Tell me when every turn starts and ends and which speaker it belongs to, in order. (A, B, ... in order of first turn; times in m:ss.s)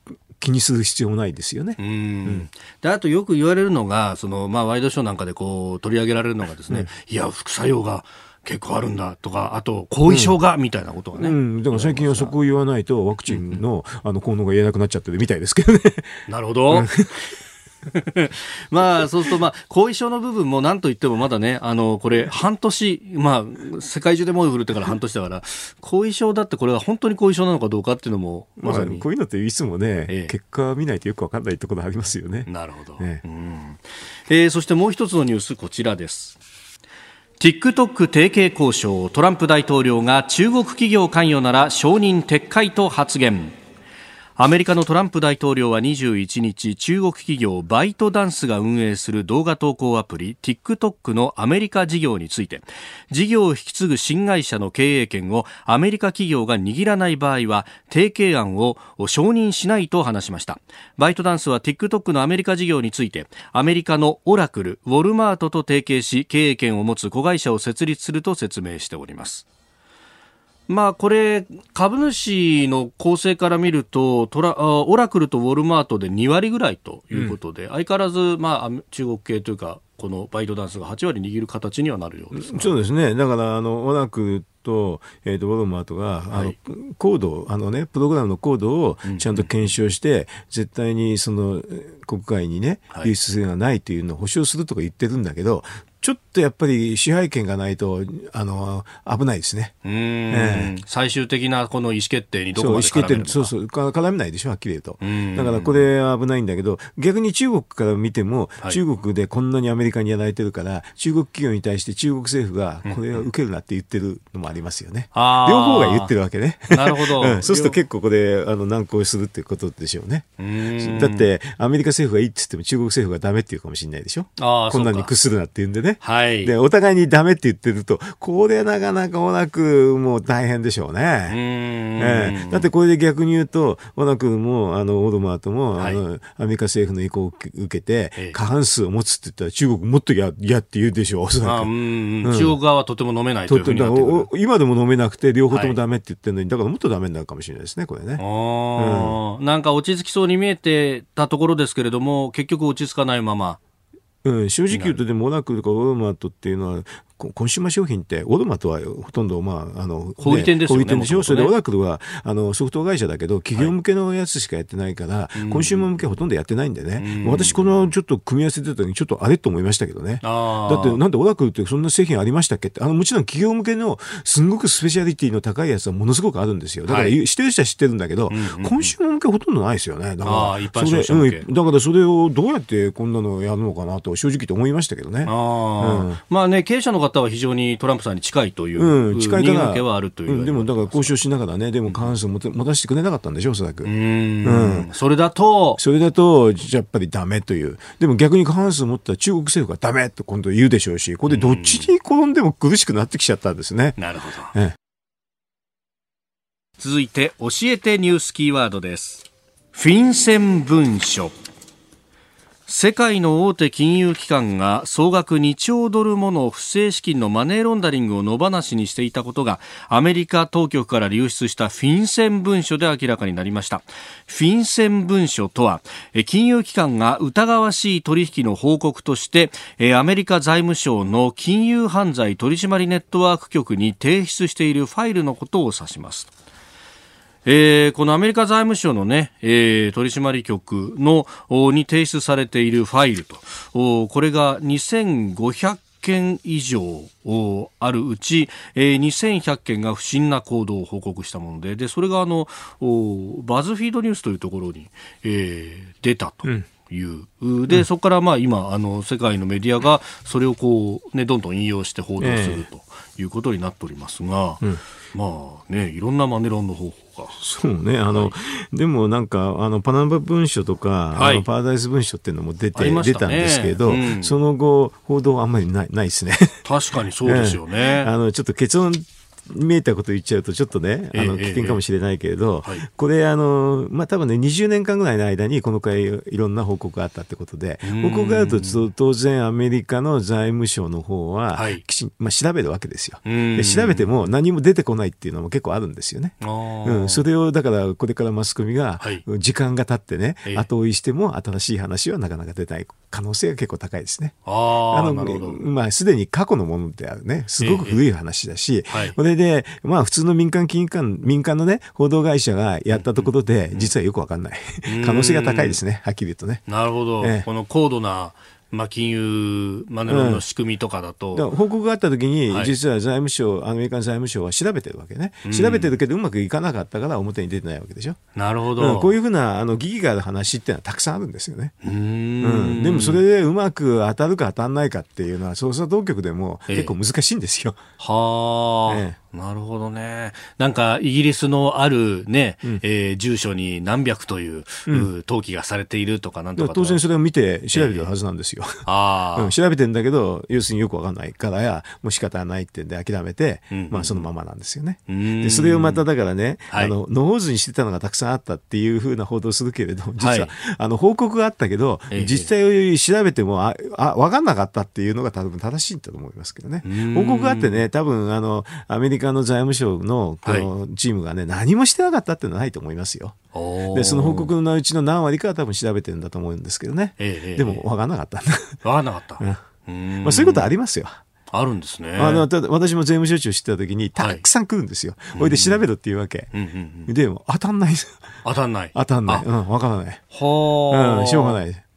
0:00.4-0:02.5 A
0:01.8-0:12.3 B
0:10.1-0:10.4 A
0:11.2-0:17.2 A
0:13.3-0:13.6 B
0:16.3-0:16.9 B
0:17.9-0:29.0 B
0:28.6-0:33.2 A
0:30.1-0:30.3 B
0:32.5-0:36.4 B
0:37.4-0:43.6 B
0:44.4-1:09.4 B
1:10.7-1:22.7 B
1:22.3-1:39.7 A
1:26.3-1:26.6 B
1:29.0-1:29.5 B
1:39.8-1:43.5 B
1:40.3-1:40.7 A
1:42.6-2:11.4 A
1:45.0-1:45.8 B
1:52.8-1:53.2 B
1:55.1-1:56.1 B
1:56.7-1:57.8 B
2:00.4-2:01.3 B
2:04.4-2:05.1 B
2:06.0-2:06.5 B
2:11.3-2:12.7 B
2:12.0-2:21.7 A
2:21.4-2:24.3 B
2:22.2-2:22.6 A
2:23.5-2:28.2 A
2:25.5-2:25.8 B
2:28.2-2:33.6 B
2:28.8-2:29.2 A
2:34.2-3:06.2 A
2:34.7-2:35.0 B
2:40.2-2:41.5 B
2:45.3-2:45.9 B
2:47.0-2:47.9 B
2:50.2-2:51.0 B
2:56.8-2:57.2 B
2:58.3-2:58.9 B
3:00.2-3:01.5 B
3:05.2-3:11.2 B
3:08.8-3:13.9 A
3:13.8-3:15.8 B
3:14.4-3:14.9 A
3:15.8-3:24.0 A
3:21.3-3:21.9 B
3:24.0-3:24.5 B
3:26.8-3:31.3 B
3:32.7-3:56.3 B
3:57.4-4:27.4 B
4:22.2-4:22.6 A
4:27.4-4:36.6 A
4:31.1-4:31.4 B
4:32.7-4:34.3 B
4:36.6-4:38.1 B
4:37.2-5:04.4 A
4:41.1-4:41.8 B
4:47.8-4:48.8 B
4:51.5-4:51.8 B
4:53.2-4:54.1 B
4:56.4-4:57.2 B
4:59.0-4:59.2 B
5:04.4-5:05.6 B
5:04.9-5:16.6 A
5:07.6-5:08.0 B
5:08.9-5:09.2 B
5:12.9-5:13.9 B
5:14.8-5:15.8 B
5:16.7-5:21.4 B
5:17.2-5:17.5 A
5:20.1-5:20.4 A
5:21.3-5:28.2 A
5:25.4-5:25.9 B
5:28.3-5:29.1 B
5:28.8-5:31.7 A
5:31.8-5:33.2 B
5:32.4-5:37.8 A
5:36.7-5:36.9 B
5:38.0-5:47.0 B
5:38.9-5:39.2 A
5:46.6-5:48.8 A
5:47.7-5:48.1 B
5:48.8-5:49.5 B
5:49.3-6:13.4 A
5:53.7-5:54.3 B
5:55.1-5:56.0 B
6:00.2-6:00.5 B
6:02.1-6:02.5 B
6:06.8-6:07.8 B
6:13.5-6:14.5 B
6:13.9-6:18.8 A
6:17.2-6:17.8 B
6:18.8-6:20.7 B
6:20.2-6:21.2 A
6:21.5-6:22.5 B
6:22.2-6:26.5 A
6:24.2-6:24.4 B
6:25.3-6:25.8 B
6:26.5-6:27.1 B
6:27.1-6:28.2 A
6:28.4-6:29.4 B
6:28.9-6:30.2 A
6:30.3-6:31.6 B
6:30.9-6:31.8 A